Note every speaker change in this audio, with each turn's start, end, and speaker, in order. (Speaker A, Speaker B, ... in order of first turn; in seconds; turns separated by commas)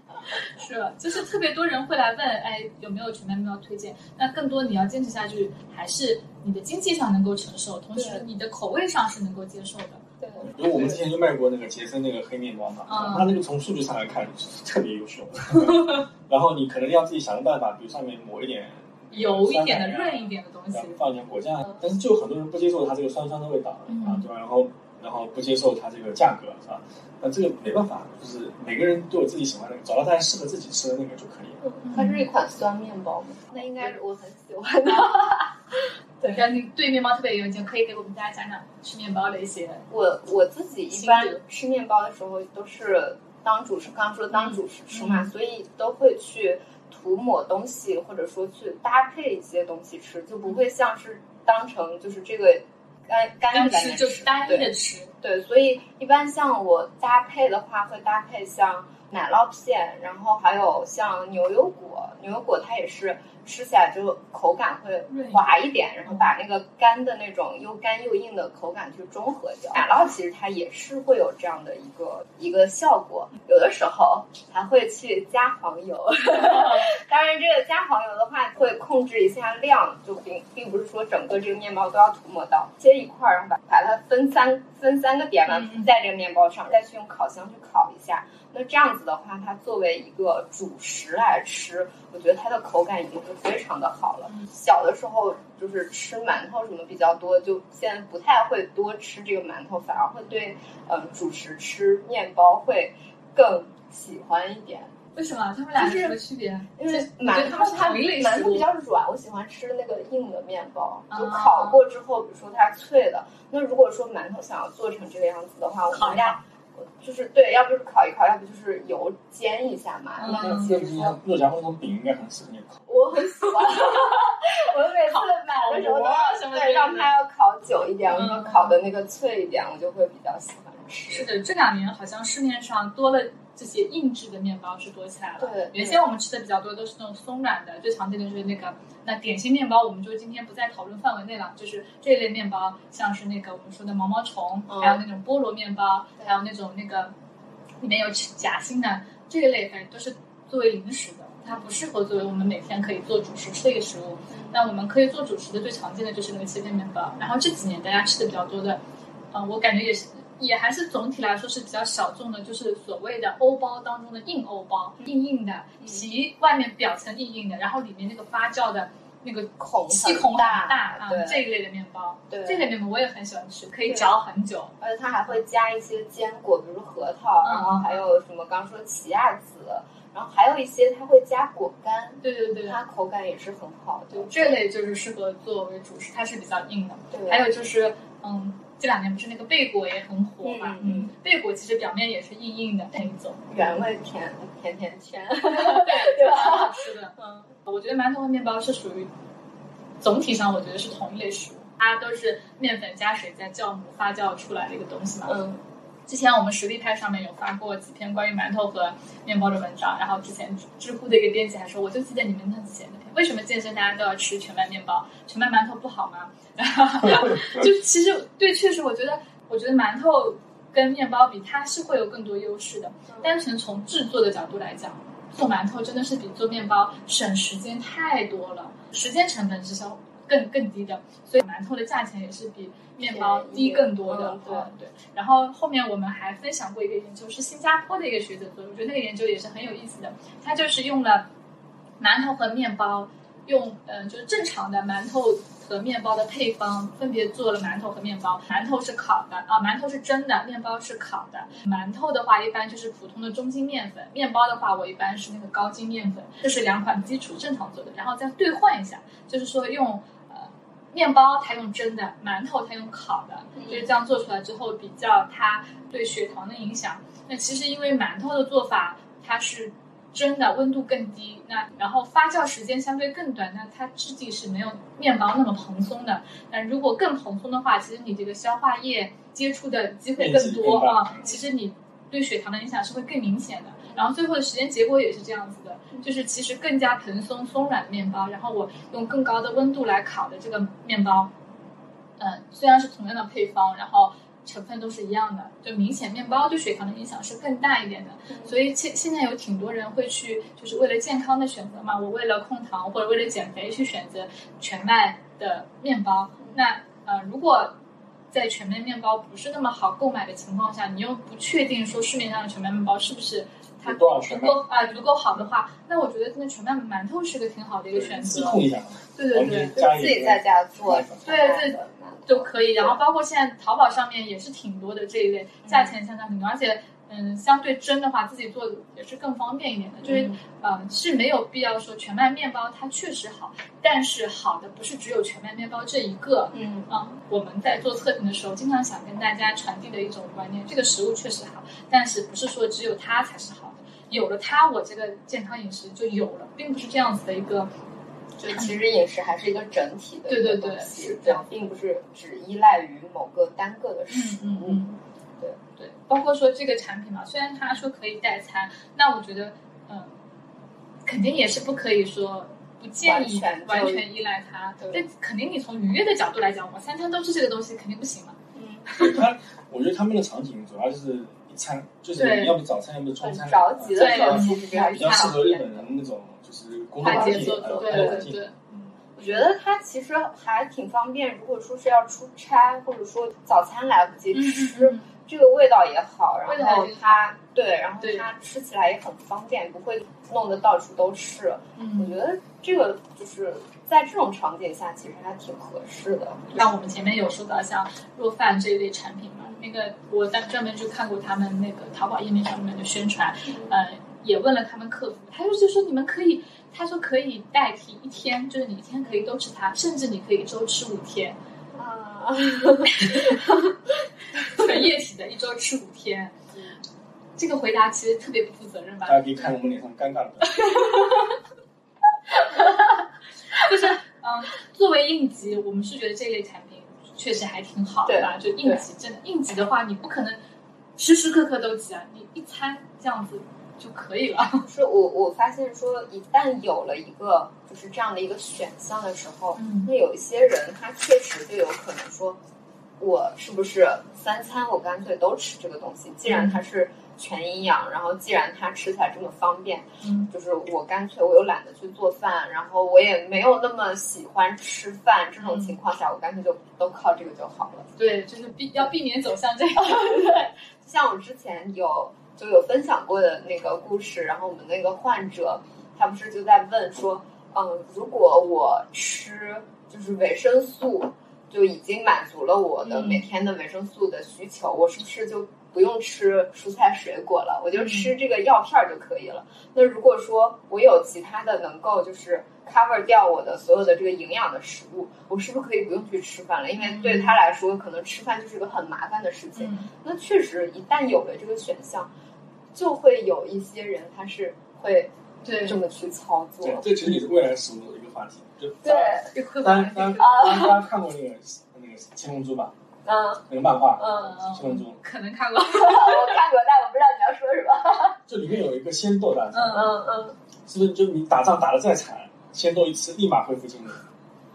Speaker A: 0.3-10.0, Speaker B: 8.0-8.2, Speaker B: 10.2-11.0, Speaker C: 10.5-31.6, Speaker A: 12.9-13.3, Speaker A: 15.8-16.0, Speaker A: 19.1-21.0, Speaker A: 23.9-24.2, Speaker B: 31.6-35.5, Speaker A: 31.8-32.3, Speaker A: 34.9-35.4, Speaker A: 36.2-39.9, Speaker B: 39.9-104.9, Speaker A: 40.9-41.4, Speaker A: 44.3-45.3, Speaker A: 53.5-55.1, Speaker A: 65.1-66.3, Speaker A: 76.4-76.9, Speaker A: 85.5-85.9, Speaker A: 105.2-108.7, Speaker B: 105.8-106.2, Speaker B: 106.8-121.2, Speaker A: 111.1-111.8, Speaker A: 115.9-116.4, Speaker A: 120.2-120.7, Speaker C: 120.3-123.0, Speaker B: 122.9-131.3, Speaker A: 125.0-127.1, Speaker A: 128.1-128.8, Speaker A: 131.1-147.1, Speaker B: 135.4-136.0, Speaker B: 144.7-145.0, Speaker A: 147.8-174.8, Speaker B: 154.3-154.6, Speaker B: 169.6-171.4, Speaker B: 172.3-172.7, Speaker B: 174.8-184.6, Speaker A: 177.4-178.0, Speaker A: 182.2-182.8, Speaker A: 184.1-193.5, Speaker B: 187.1-187.4, Speaker B: 190.4-191.1, Speaker B: 193.5-197.5, Speaker A: 195.5-199.1, Speaker A: 200.0-205.3, Speaker B: 205.2-205.6, Speaker A: 206.1-241.3, Speaker C: 217.1-217.6, Speaker B: 223.1-223.3, Speaker B: 233.0-234.7, Speaker A: 242.0-291.3, Speaker B: 263.6-263.9, Speaker C: 280.2-281.2, Speaker A: 292.2-307.8, Speaker B: 298.3-298.6, Speaker A: 308.3-318.6, Speaker C: 313.8-314.7, Speaker C: 317.9-321.4, Speaker A: 319.1-319.8, Speaker B: 319.8-323.0, Speaker A: 321.2-347.7, Speaker B: 325.6-325.9, Speaker B: 330.0-330.4, Speaker B: 336.5-336.9, Speaker B: 348.4-354.8, Speaker A: 350.3-351.6, Speaker A: 354.1-355.0, Speaker A: 355.8-360.1, Speaker A: 361.1-369.2, Speaker B: 363.0-364.1, Speaker B: 368.5-369.0, Speaker C: 369.0-379.0, Speaker A: 372.1-372.6, Speaker B: 373.2-375.9, Speaker A: 373.9-375.4, Speaker A: 377.0-378.6, Speaker B: 377.1-378.3, Speaker B: 379.2-396.7, Speaker A: 379.2-379.5, Speaker A: 384.3-385.1, Speaker A: 386.5-387.2, Speaker A: 388.0-388.3, Speaker A: 391.8-392.2, Speaker A: 396.5-411.4, Speaker B: 403.5-403.8, Speaker B: 411.8-413.7, Speaker A: 412.9-413.4, Speaker A: 414.5-416.4, Speaker B: 416.5-416.8, Speaker A: 417.4-419.5, Speaker C: 419.1-420.9, Speaker A: 420.6-421.3, Speaker A: 422.4-430.4, Speaker B: 428.1-428.8, Speaker A: 431.0-434.7, Speaker B: 434.6-442.4, Speaker A: 439.6-439.9, Speaker B: 443.0-457.9, Speaker A: 446.3-446.6, Speaker A: 450.0-450.3, Speaker A: 455.4-455.8, Speaker A: 458.0-460.5, Speaker B: 459.8-492.1, Speaker A: 472.8-473.2, Speaker A: 477.7-478.1, Speaker A: 486.8-487.4, Speaker A: 489.6-489.9, Speaker B: 492.7-497.2, Speaker A: 495.4-495.8, Speaker C: 496.6-502.8, Speaker B: 498.8-499.3, Speaker A: 499.2-500.5, Speaker B: 500.1-500.8, Speaker B: 503.1-504.4, Speaker C: 503.5-505.0, Speaker A: 504.1-506.4, Speaker B: 505.7-508.2, Speaker C: 508.3-510.0, Speaker A: 509.5-509.9, Speaker B: 509.7-510.4, Speaker C: 510.6-514.0